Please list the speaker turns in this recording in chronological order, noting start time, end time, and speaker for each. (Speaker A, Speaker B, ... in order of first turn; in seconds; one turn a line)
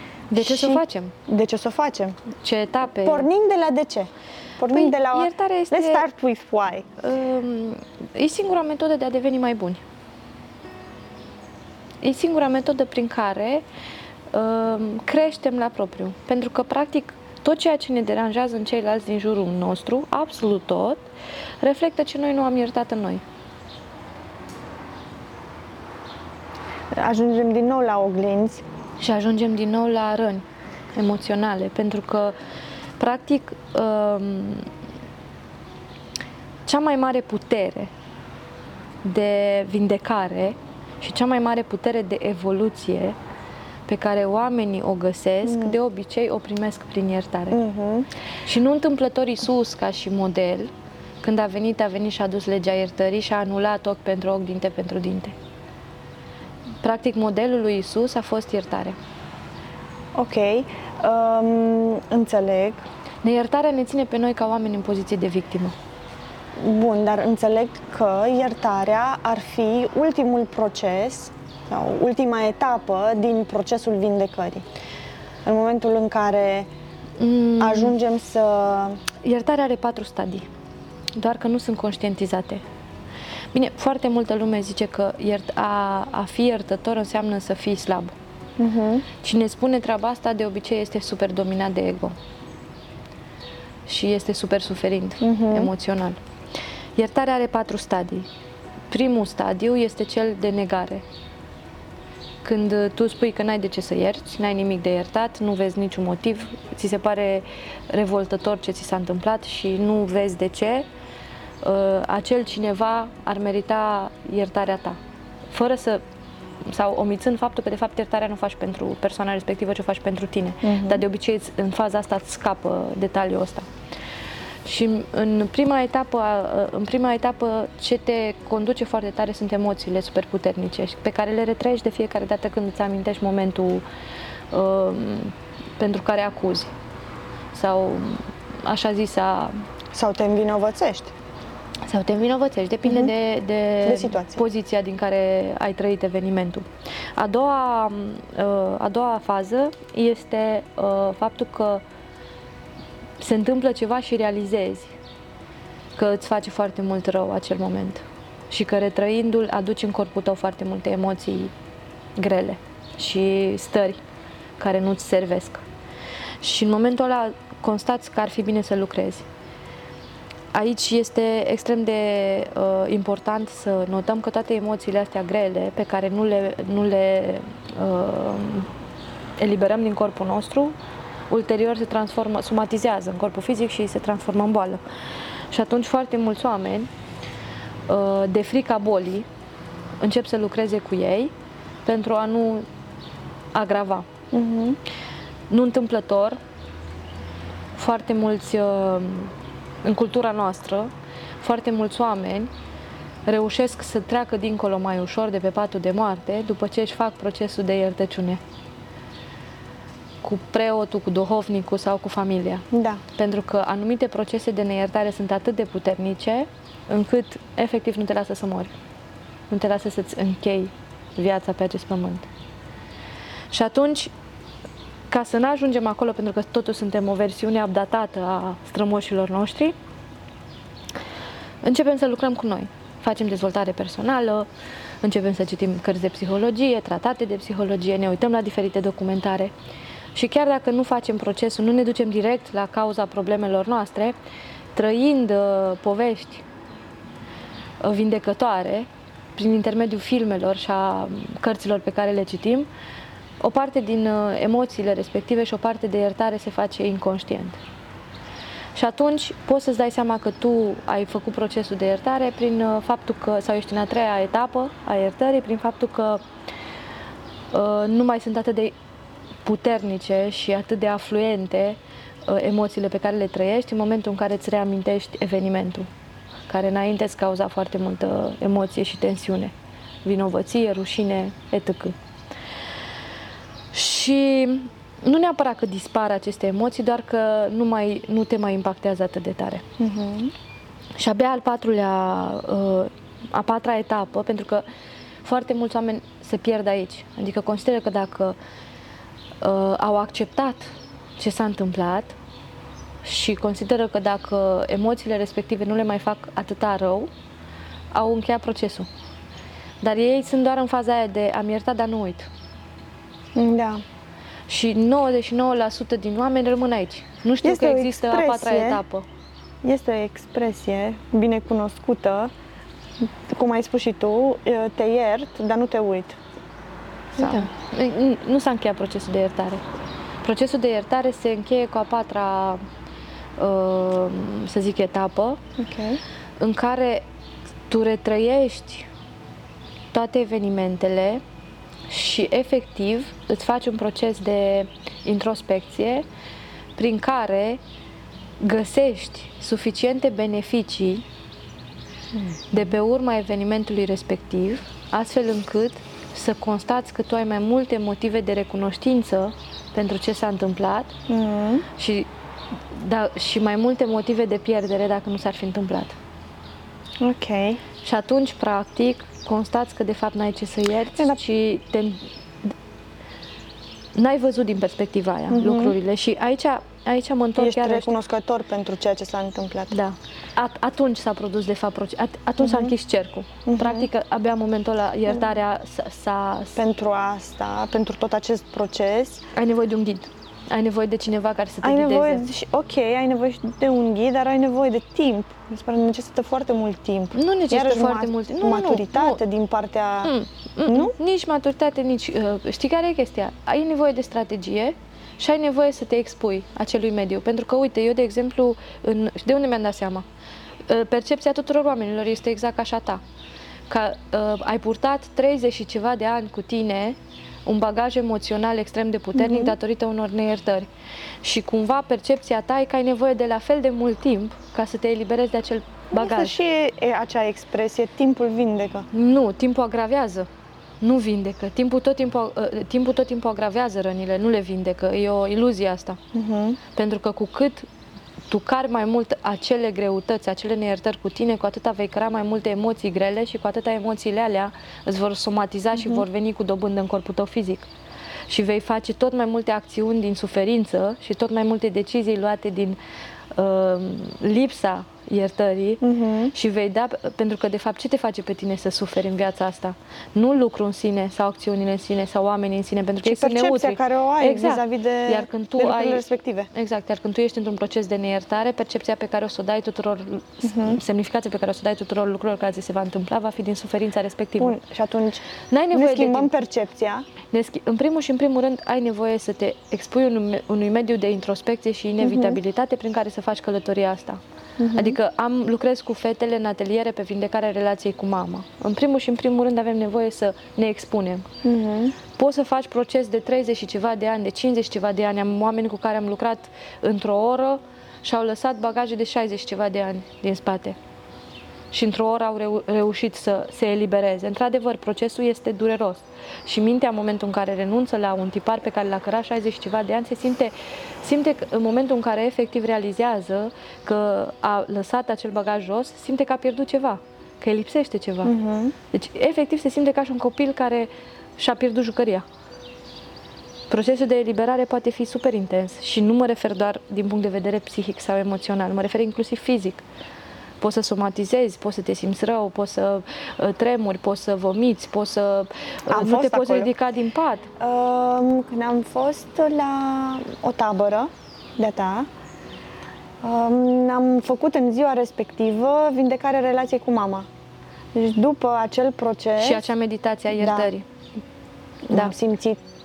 Speaker A: 0.3-1.1
Speaker B: 0.4-2.2
Speaker A: 2.4-3.3
Speaker B: 3.0-6.9
Speaker A: 4.7-6.1
Speaker A: 7.0-9.8
Speaker A: 12.0-13.6
Speaker A: 14.3-21.0
Speaker A: 21.6-23.2
Speaker B: 26.9-28.6
Speaker A: 29.0-32.4
Speaker A: 33.0-34.7
Speaker A: 36.7-37.9
Speaker A: 39.0-43.2
Speaker A: 43.9-47.6
Speaker B: 45.4-45.8
Speaker B: 47.5-48.1
Speaker A: 48.5-50.7
Speaker A: 51.2-55.3
Speaker A: 56.8-59.0
Speaker B: 60.1-62.9
Speaker A: 63.2-65.8
Speaker B: 66.6-74.7
Speaker B: 75.4-76.7
Speaker A: 77.2-77.9
Speaker B: 77.6-79.0
Speaker A: 79.2-80.5
Speaker A: 81.2-82.6
Speaker A: 83.5-88.2
Speaker B: 88.6-89.0
Speaker A: 89.2-92.2
Speaker A: 93.9-96.2
Speaker B: 95.2-95.7
Speaker A: 97.0-98.3
Speaker A: 98.9-101.0
Speaker A: 102.4-110.8
Speaker A: 111.6-115.0
Speaker A: 115.5-116.0
Speaker A: 116.7-123.7
Speaker B: 120.6-121.0
Speaker A: 124.7-133.8
Speaker A: 134.5-136.7
Speaker A: 137.5-139.5
Speaker B: 139.9-141.1
Speaker A: 141.9-151.8
Speaker B: 142.8-143.1
Speaker B: 143.8-144.4
Speaker A: 153.2-154.9
Speaker A: 156.0-161.5
Speaker A: 162.2-164.0
Speaker A: 164.6-165.6
Speaker A: 166.4-169.2
Speaker A: 170.5-178.7
Speaker A: 179.4-180.8
Speaker A: 181.3-184.8
Speaker A: 185.5-186.9
Speaker A: 187.9-189.3
Speaker A: 190.0-191.3
Speaker A: 191.8-192.7
Speaker A: 193.5-194.1
Speaker B: 194.3-194.8
Speaker A: 195.5-196.4
Speaker A: 197.8-199.3
Speaker A: 199.8-200.9
Speaker A: 201.4-202.5
Speaker A: 203.3-208.4
Speaker A: 210.2-218.7
Speaker B: 212.7-213.0
Speaker A: 219.5-222.3
Speaker A: 223.5-224.1
Speaker A: 225.1-229.8
Speaker A: 231.6-234.5
Speaker A: 235.0-239.5
Speaker A: 240.2-244.2
Speaker A: 244.8-246.4
Speaker A: 247.8-252.7
Speaker A: 253.4-257.6
Speaker A: 258.8-266.2
Speaker A: 267.5-268.8
Speaker A: 269.4-275.9
Speaker A: 276.5-279.5
Speaker A: 280.0-282.0
Speaker A: 283.7-289.6
Speaker B: 289.8-290.3
Speaker A: 291.0-294.6
Speaker A: 295.2-298.4
Speaker A: 299.4-302.1
Speaker A: 303.0-307.1
Speaker A: 307.9-308.9
Speaker A: 309.8-312.3
Speaker B: 313.4-313.8
Speaker A: 314.5-319.1
Speaker B: 317.4-318.8
Speaker B: 319.6-322.3
Speaker B: 323.0-326.2
Speaker B: 327.2-327.5
Speaker A: 327.2-329.6
Speaker A: 330.2-332.6
Speaker A: 333.4-335.4
Speaker B: 335.6-336.0
Speaker A: 336.4-337.0
Speaker A: 337.7-338.9
Speaker A: 339.9-341.2
Speaker A: 341.9-346.1
Speaker A: 346.8-347.6
Speaker A: 348.4-351.0
Speaker A: 352.5-360.9
Speaker B: 361.1-361.7
Speaker A: 361.8-362.1
Speaker A: 362.7-365.9
Speaker B: 367.0-367.6
Speaker A: 367.8-372.0
Speaker A: 373.9-377.9
Speaker B: 375.3-375.8
Speaker B: 377.4-379.7
Speaker A: 379.7-386.6
Speaker B: 382.4-382.7
Speaker B: 383.4-383.9
Speaker B: 386.6-389.2
Speaker A: 389.3-392.2
Speaker B: 391.6-400.1
Speaker A: 397.1-399.2
Speaker A: 400.0-410.0
Speaker B: 400.7-400.9
Speaker A: 410.7-413.0
Speaker A: 413.7-420.7
Speaker B: 419.1-419.5
Speaker A: 421.2-426.4
Speaker B: 425.9-428.9
Speaker A: 428.9-430.3
Speaker A: 430.8-436.0
Speaker B: 436.1-436.6
Speaker A: 436.7-437.7
Speaker A: 438.3-447.7
Speaker A: 448.3-452.8
Speaker A: 453.4-455.8
Speaker B: 455.8-456.3
Speaker A: 456.3-474.6
Speaker B: 463.0-466.5
Speaker B: 470.4-470.8
Speaker B: 474.4-475.2
Speaker A: 475.5-476.3
Speaker B: 475.7-477.1
Speaker A: 477.3-484.2
Speaker B: 482.0-482.4
Speaker B: 484.6-485.0
Speaker A: 484.8-491.3
Speaker B: 491.4-491.9
Speaker A: 492.1-500.8
Speaker A: 501.7-518.3
Speaker B: 518.2-518.8
Speaker A: 518.9-522.2
Speaker A: 523.7-529.8
Speaker A: 530.6-537.5
Speaker B: 535.9-536.7
Speaker B: 537.6-542.1
Speaker B: 543.2-547.3
Speaker B: 547.9-549.6
Speaker A: 549.4-550.9
Speaker B: 550.4-550.7
Speaker B: 551.9-552.6